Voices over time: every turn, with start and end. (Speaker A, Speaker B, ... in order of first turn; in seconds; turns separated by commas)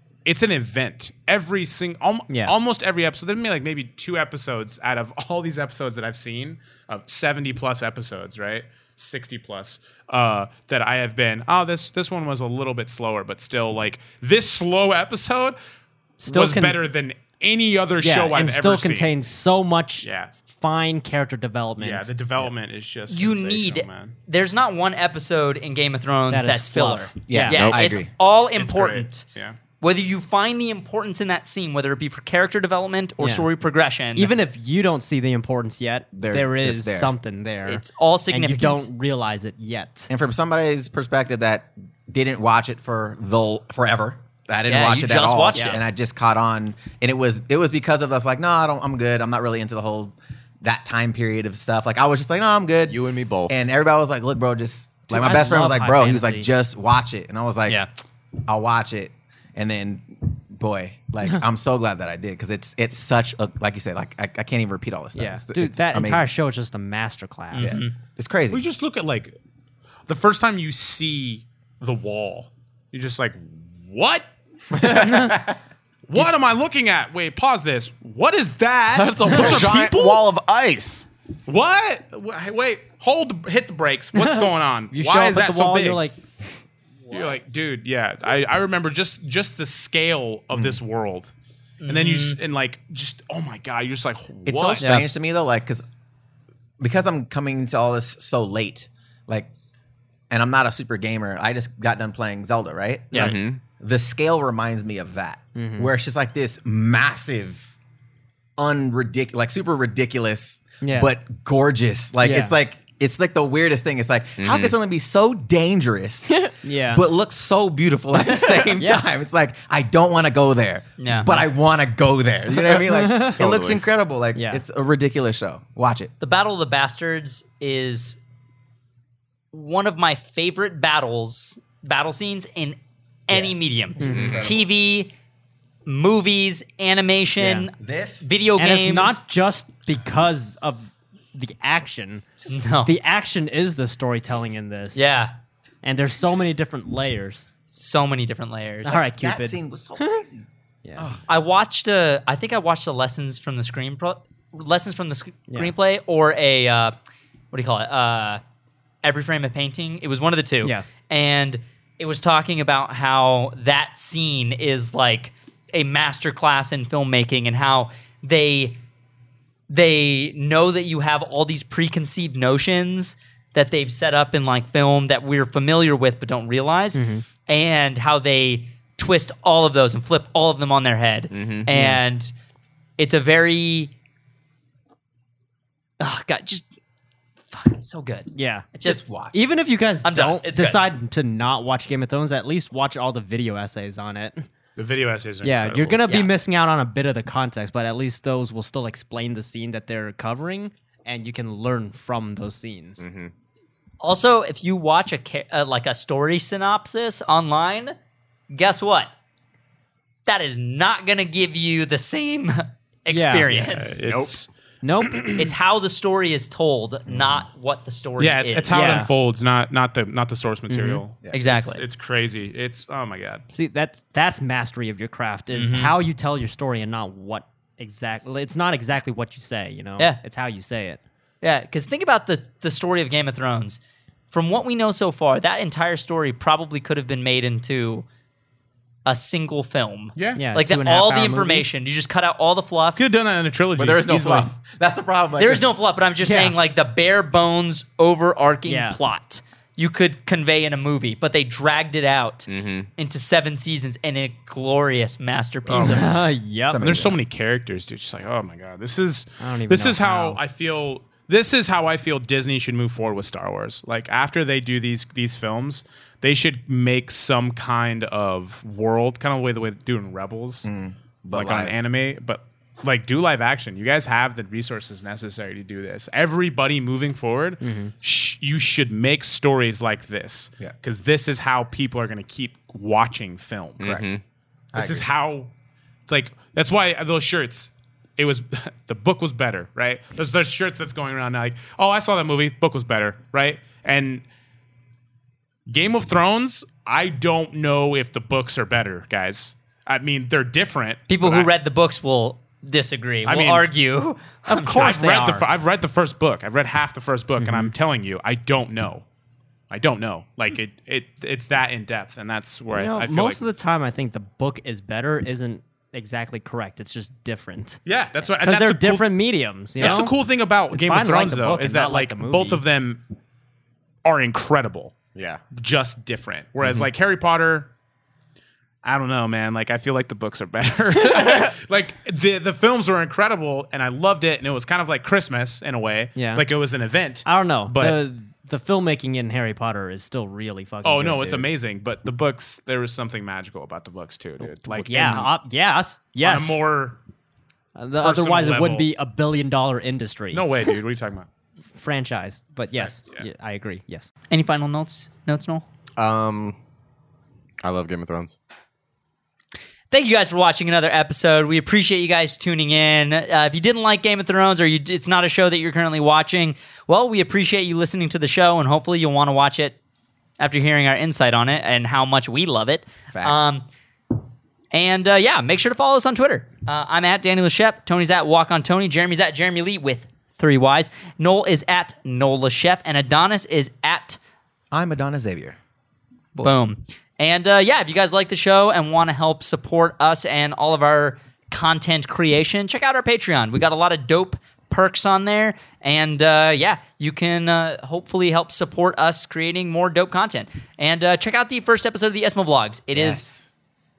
Speaker A: 0.2-15.6, Speaker B: 2.3-2.5, Speaker B: 16.2-16.8, Speaker A: 16.3-19.1, Speaker B: 18.0-22.1, Speaker A: 20.0-20.3, Speaker A: 21.8-24.1, Speaker C: 23.1-29.3, Speaker B: 26.3-27.6, Speaker D: 27.3-28.1, Speaker E: 27.5-27.8, Speaker A: 28.6-29.6, Speaker C: 29.8-34.3, Speaker B: 33.2-33.5, Speaker B: 34.1-40.1, Speaker D: 36.1-37.1, Speaker C: 37.6-38.9, Speaker D: 40.1-57.8, Speaker C: 44.7-45.8, Speaker E: 52.9-53.6, Speaker B: 55.1-56.5, Speaker D: 58.5-66.3, Speaker B: 65.2-67.8, Speaker C: 67.5-67.9, Speaker D: 67.6-68.6, Speaker A: 68.5-69.3, Speaker A: 70.1-74.3, Speaker D: 74.8-75.5, Speaker B: 75.0-75.3, Speaker A: 75.0-75.3, Speaker A: 76.1-80.2, Speaker E: 78.9-81.1, Speaker A: 81.5-86.0, Speaker B: 84.2-86.2, Speaker A: 87.1-91.3, Speaker D: 90.5-90.8, Speaker C: 91.8-92.4, Speaker A: 91.9-95.0, Speaker D: 94.5-95.8, Speaker D: 96.8-99.5, Speaker D: 100.3-107.7, Speaker E: 103.2-103.6, Speaker B: 105.6-105.9, Speaker D: 108.6-126.1, Speaker B: 110.8-111.1, Speaker B: 112.2-112.5, Speaker E: 114.4-114.7, Speaker B: 116.6-117.0, Speaker B: 118.8-119.1, Speaker C: 121.0-121.5, Speaker B: 122.8-123.4, Speaker E: 123.4-123.8, Speaker B: 124.3-124.6, Speaker C: 126.2-128.2, Speaker C: 129.5-135.1, Speaker D: 133.3-134.6, Speaker B: 134.0-134.4, Speaker E: 134.0-134.5, Speaker C: 135.9-139.2, Speaker B: 137.4-137.7, Speaker D: 137.7-138.3, Speaker B: 138.6-142.3, Speaker C: 142.5-142.9, Speaker B: 142.8-145.0, Speaker C: 144.9-145.4, Speaker B: 145.8-147.5, Speaker C: 147.7-149.0, Speaker D: 148.8-151.2, Speaker B: 148.9-149.6, Speaker C: 151.3-156.9, Speaker C: 157.5-158.4, Speaker C: 159.0-168.8, Speaker C: 169.7-182.3, Speaker B: 176.9-177.2, Speaker E: 181.3-181.7, Speaker B: 181.7-182.0, Speaker C: 183.0-183.9, Speaker C: 186.0-186.7, Speaker C: 187.5-189.0, Speaker B: 188.3-194.5, Speaker D: 188.8-189.4, Speaker C: 190.0-190.8, Speaker A: 194.8-196.0, Speaker B: 195.4-203.0, Speaker C: 196.1-196.3, Speaker E: 203.0-203.3, Speaker C: 204.0-207.9, Speaker C: 208.5-209.1, Speaker C: 210.3-214.0, Speaker B: 213.1-213.5, Speaker A: 213.5-214.5, Speaker E: 214.1-214.4, Speaker B: 214.8-215.3, Speaker A: 215.0-215.5, Speaker C: 215.3-219.1, Speaker D: 217.1-217.5, Speaker A: 218.2-223.4, Speaker B: 218.7-219.1, Speaker B: 220.7-221.0, Speaker D: 221.2-221.6, Speaker C: 221.3-221.8, Speaker B: 223.5-231.0, Speaker C: 225.5-225.9, Speaker C: 231.4-233.8, Speaker C: 234.3-238.1, Speaker C: 239.1-243.0, Speaker A: 240.2-240.4, Speaker B: 240.3-241.7, Speaker A: 243.0-244.5, Speaker D: 243.8-245.7, Speaker C: 245.4-256.1, Speaker B: 246.2-246.6, Speaker B: 248.7-249.0, Speaker E: 252.5-252.9, Speaker B: 255.7-257.0, Speaker D: 256.7-257.2, Speaker A: 256.8-270.7, Speaker B: 259.4-260.4, Speaker D: 270.6-271.8, Speaker A: 271.3-283.9, Speaker B: 277.6-277.9, Speaker E: 283.8-284.2, Speaker D: 283.8-284.1, Speaker D: 284.7-285.1, Speaker A: 284.8-285.5, Speaker A: 286.1-294.2, Speaker A: 295.7-301.5, Speaker C: 301.1-304.9, Speaker A: 303.3-303.7, Speaker B: 304.5-305.4, Speaker A: 304.7-309.0, Speaker B: 307.4-307.7, Speaker A: 309.7-313.4, Speaker B: 312.7-317.8, Speaker A: 317.9-323.0, Speaker B: 318.4-320.1, Speaker B: 320.7-322.6, Speaker A: 324.1-325.0, Speaker E: 325.1-325.4, Speaker A: 325.5-327.7, Speaker B: 326.6-326.9, Speaker A: 328.8-338.0, Speaker B: 336.2-336.4, Speaker B: 337.2-341.5, Speaker A: 340.8-345.3, Speaker B: 344.4-346.6, Speaker A: 346.2-347.0, Speaker B: 347.8-350.5, Speaker A: 348.0-348.9, Speaker A: 350.3-351.3, Speaker B: 351.8-354.1, Speaker A: 352.7-353.3, Speaker C: 354.3-355.6, Speaker E: 356.0-356.6, Speaker E: 357.6-358.4, Speaker C: 359.9-369.8, Speaker C: 370.4-373.7, Speaker D: 373.1-373.5, Speaker C: 374.7-384.2, Speaker D: 384.7-385.6, Speaker C: 386.4-403.3, Speaker D: 402.9-403.4